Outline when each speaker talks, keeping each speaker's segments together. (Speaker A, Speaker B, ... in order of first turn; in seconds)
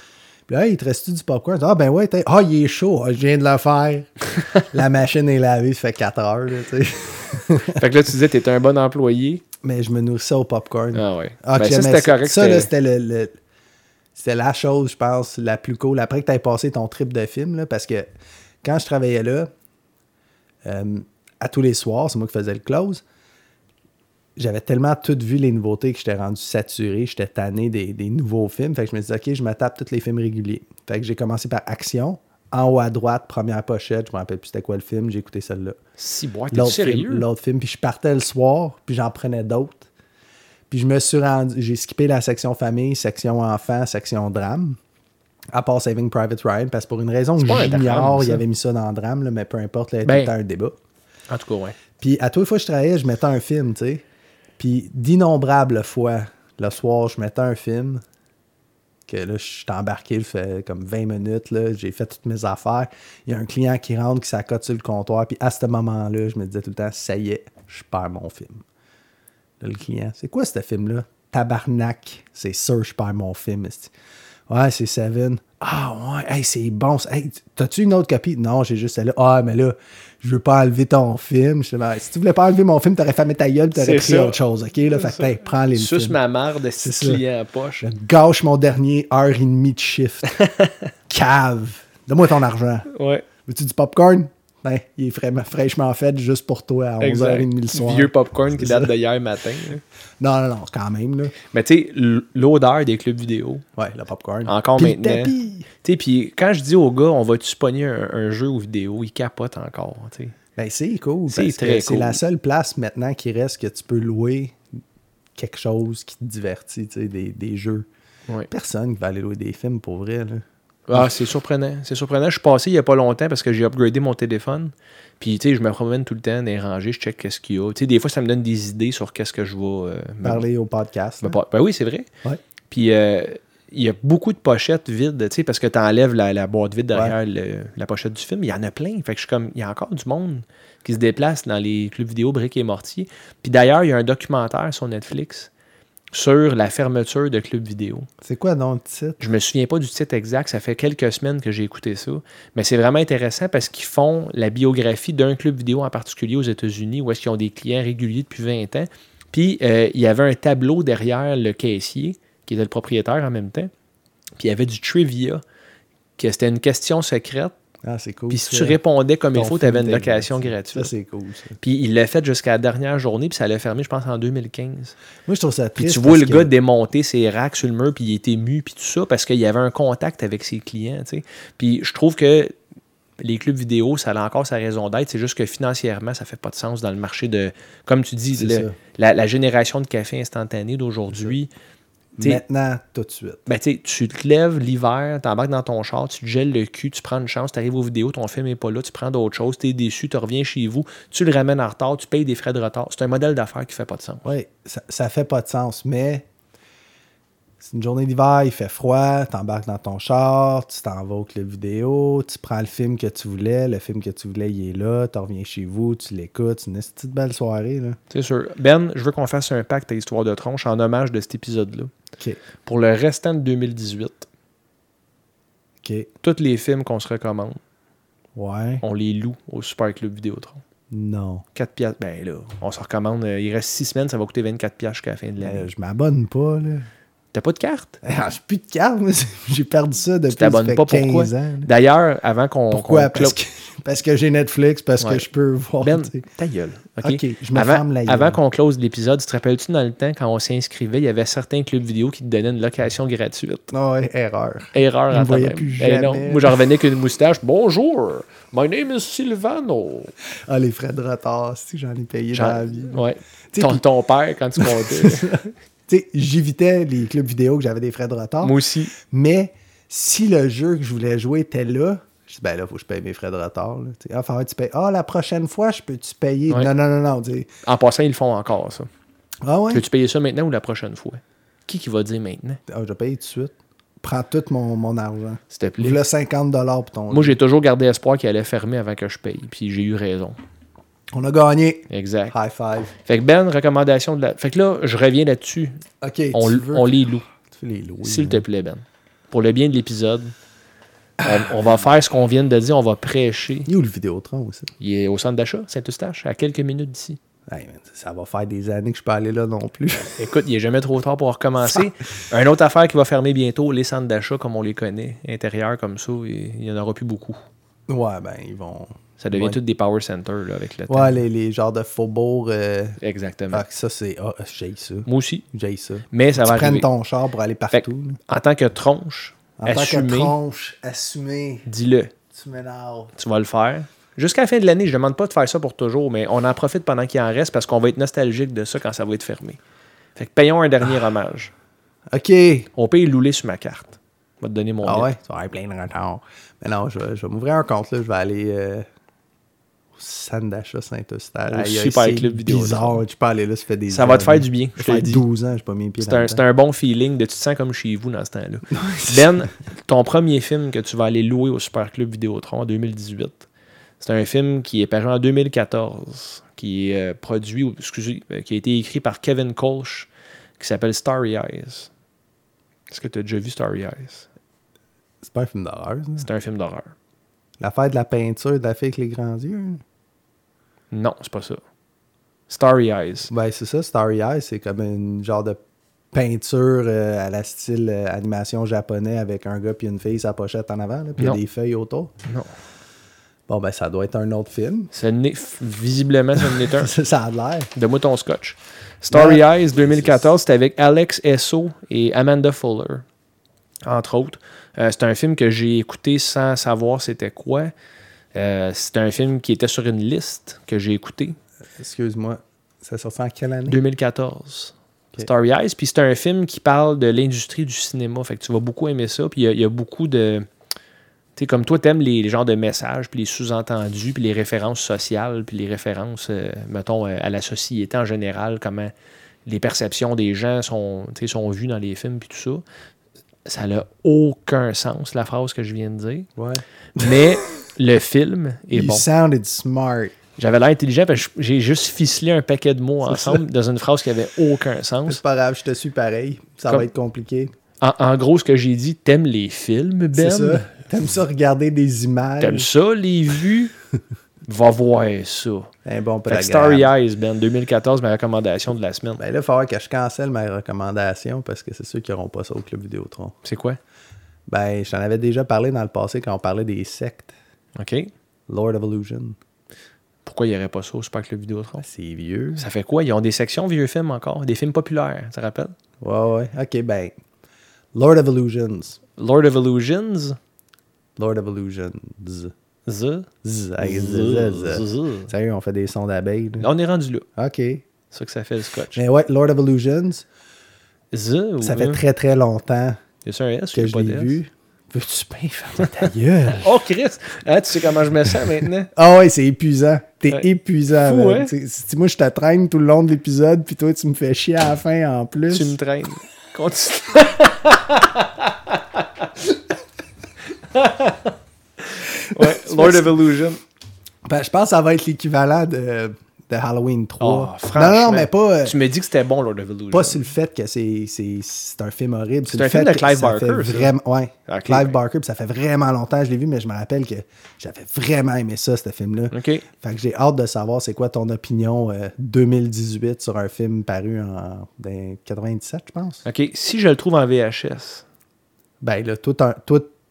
Speaker A: 0.5-4.1, 4.6-7.8, 9.6-13.3, 14.2-18.1, 18.6-19.5, 20.6-23.0, 24.4-35.8, 36.5-39.9, 40.7-44.8, 45.5-50.8, 52.0-54.0, 54.6-58.0, 59.1-68.6, 69.6-73.9, 74.5-86.2, 86.8-87.2, 87.8-90.3, 91.1-92.9, 93.4-98.9, 100.2-101.3, 103.8-105.7, 110.5-114.6, 115.3-117.8, 118.5-121.1, 130.2-131.4, 148.2-149.2, 167.8-168.8, 169.3-171.6, 175.2-176.5, 188.3-188.7, 192.2-193.4, 204.2-206.2, 207.6-218.0, 225.8-226.1, 228.3-228.8, 230.9-231.4, 235.4-236.9, 238.0-241.7, 242.7-246.2, 247.0-248.4, 253.7-256.6, 260.4-263.8, 264.6-277.5, 279.4-279.8, 282.7-287.4, 291.1-292.9, 296.0-298.4, 301.2-301.5, 303.7-304.7, 307.5-310.1, 317.9-319.6, 320.9-323.0, 323.5-328.2, 329.6-331.6, 332.3-333.1, 342.1-342.7, 344.8-348.9, 349.9-356.4, 358.7-359.4, 375.2-376.3, 377.6-379.8, 383.3-385.6, 386.1-392.1, 393.5-394.9, 396.4-397.7, 399.1-400.2, 411.7-413.8, 436.4-437.2, 438.7-440.1, 443.1-443.4, 445.1-447.5, 450.1-452.7, 455.8-456.9, 459.2-463.4, 464.5-467.3, 468.5-469.4, 471.8-472.6, 476.0-477.1, 477.9-479.0, 481.2-482.5, 483.4-486.7, 487.4-487.8, 488.9-490.2, 491.6-493.0, 493.7-496.8, 498.9-505.8, 512.3-513.2, 514.2-518.8, 519.9-536.2, 538.8-539.9
Speaker B: 7.6-9.4, 10.9-12.7, 36.0-37.2, 47.4-48.4, 50.0-50.3, 51.3-51.8, 83.7-84.4, 84.9-87.9, 90.4-90.7, 92.9-93.2, 97.0-99.8, 101.5-103.6, 104.5-110.3, 111.3-112.2, 120.9-130.4, 131.2-132.1, 132.7-145.5, 146.1-148.1, 149.2-163.7, 164.4-165.4, 166.2-167.5, 168.3-170.9, 171.6-174.9, 175.8-182.5, 183.2-191.5, 193.4-204.3, 218.1-221.9, 222.6-224.3, 226.2-227.6, 228.8-230.6, 231.5-235.7, 237.3-238.0, 240.3-243.3, 245.0-245.2, 245.8-253.7, 254.7-260.1, 262.3-265.5, 268.4-268.9, 277.6-278.9, 279.7-282.6, 285.5-286.0, 287.1-290.4, 291.9-292.3, 293.0-295.8, 296.3-297.2, 298.0-300.3, 301.2-303.7, 304.8-307.2, 310.1-317.4, 319.2-321.2, 323.0-323.6, 325.1-325.4, 326.1-326.9, 327.7-330.3, 331.7-332.1, 333.2-339.6, 340.1-341.5, 342.7-345.1, 351.4-353.0, 353.9-355.2, 356.0-363.5, 364.0-371.9, 372.9-374.3, 376.2-376.9, 380.9-381.6, 382.5-383.3, 394.9-396.9, 397.7-403.0, 403.8-407.7, 408.3-411.4, 413.7-420.5, 421.4-428.9, 429.4-432.6, 433.4-436.3, 436.9-439.0, 440.4-445.2, 447.8-450.8, 452.4-453.7, 454.4-455.7, 456.3-459.2, 463.4-463.8, 467.8-468.1, 470.2-471.8, 472.6-475.7, 479.2-480.4, 482.9-483.3, 483.8-485.3, 486.6-487.3, 488.1-489.0, 491.1-492.0, 493.2-494.4, 496.6-498.9, 500.3-501.5, 505.5-509.3, 510.6-513.6, 517.2-520.3, 522.5-523.9, 524.5-524.9, 529.3-529.6, 536.2-538.0